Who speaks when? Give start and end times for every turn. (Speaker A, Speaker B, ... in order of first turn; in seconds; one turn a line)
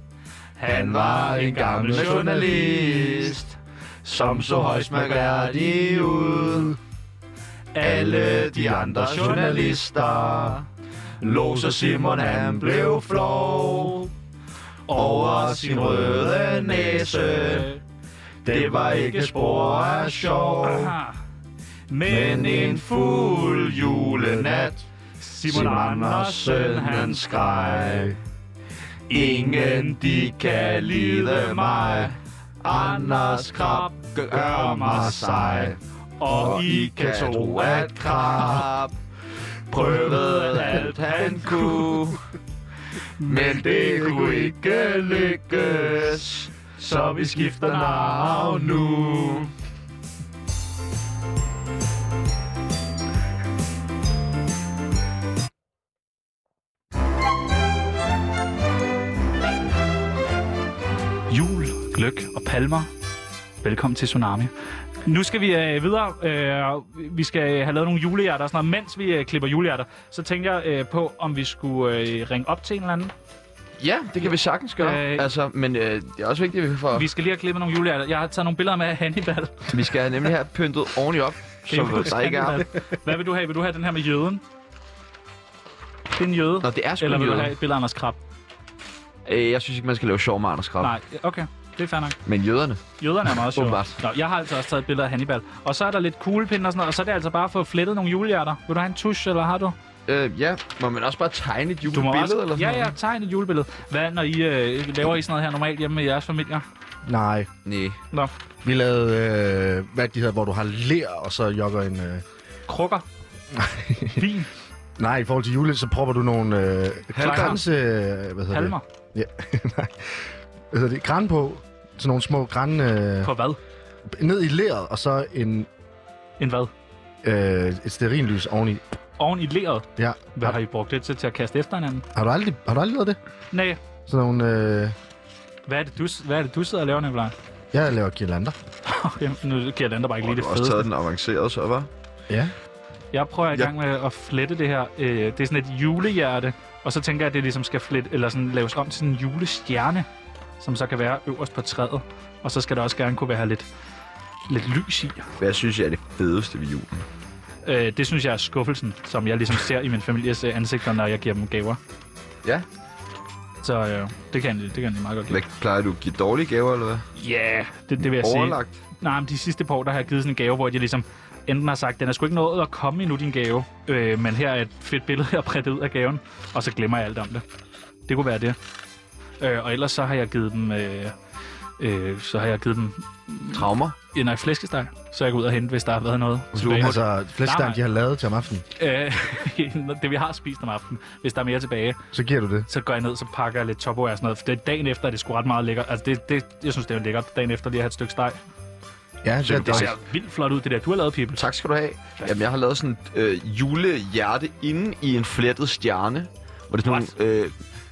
Speaker A: 0.6-3.4
Speaker B: 0.7-3.5
Speaker B: 4.0-6.8
Speaker A: 4.2-5.0
Speaker A: 7.7-9.9
Speaker B: 7.8-10.7
Speaker B: 11.2-14.1
Speaker A: 14.9-17.8
Speaker B: 14.9-17.7
Speaker B: 18.4-20.9
Speaker A: 20.6-21.2
Speaker A: 21.9-23.1
Speaker B: 22.1-24.8
Speaker A: 25.2-28.1
Speaker B: 25.4-28.2
Speaker B: 29.1-38.9
Speaker A: 29.1-32.1
Speaker A: 32.7-38.6
Speaker B: 39.7-42.2
Speaker A: 39.7-42.1
Speaker A: 43.2-45.4
Speaker B: 43.2-49.5
Speaker A: 46.8-48.9
Speaker A: 61.3-62.9
Speaker A: 63.6-64.5
Speaker A: 65.0-73.1
Speaker B: 73.8-77.1
Speaker A: 74.3-75.3
Speaker A: 76.9-79.8
Speaker B: 79.7-82.7
Speaker A: 81.7-84.4
Speaker A: 86.1-88.2
Speaker B: 86.6-87.5
Speaker B: 89.2-90.9
Speaker A: 90.8-92.2
Speaker B: 92.2-94.0
Speaker A: 93.0-99.8
Speaker B: 100.1-102.9
Speaker A: 101.9-106.6
Speaker C: 107.0-107.5
Speaker B: 107.6-108.0
Speaker C: 108.6-112.2
Speaker A: 112.7-113.0
Speaker C: 113.5-114.2
Speaker A: 114.1-114.5
Speaker C: 115.0-123.3
Speaker B: 117.1-117.6
Speaker A: 117.2-117.6
Speaker A: 118.5-118.8
Speaker A: 123.2-123.6
Speaker C: 124.1-125.7
Speaker A: 126.4-126.7
Speaker C: 127.2-128.8
Speaker A: 129.2-132.1
Speaker C: 130.0-130.6
Speaker C: 132.1-133.2
Speaker A: 133.5-133.8
Speaker C: 134.1-134.9
Speaker A: 135.7-137.3
Speaker C: 137.7-138.6
Speaker A: 138.8-140.9
Speaker B: 140.2-141.9
Speaker C: 142.3-142.5
Speaker A: 143.1-150.1
Speaker A: 150.6-153.7
Speaker A: 154.5-155.3
Speaker B: 155.4-157.0
Speaker A: 157.6-161.8
Speaker A: 163.6-165.4
Speaker B: 165.3-167.0
Speaker A: 167.2-177.4
Speaker B: 168.1-168.8
Speaker A: 178.1-178.6
Speaker A: 179.4-181.2
Speaker A: 181.8-187.8
Speaker B: 183.5-183.9
Speaker B: 186.5-187.0
Speaker C: 186.7-188.6
Speaker A: 188.8-192.0
Speaker C: 192.1-192.7
Speaker A: 192.7-198.4
Speaker C: 199.2-199.9
Speaker B: 199.4-200.0
Speaker A: 199.6-201.4
Speaker B: 201.4-207.5
Speaker A: 206.8-207.1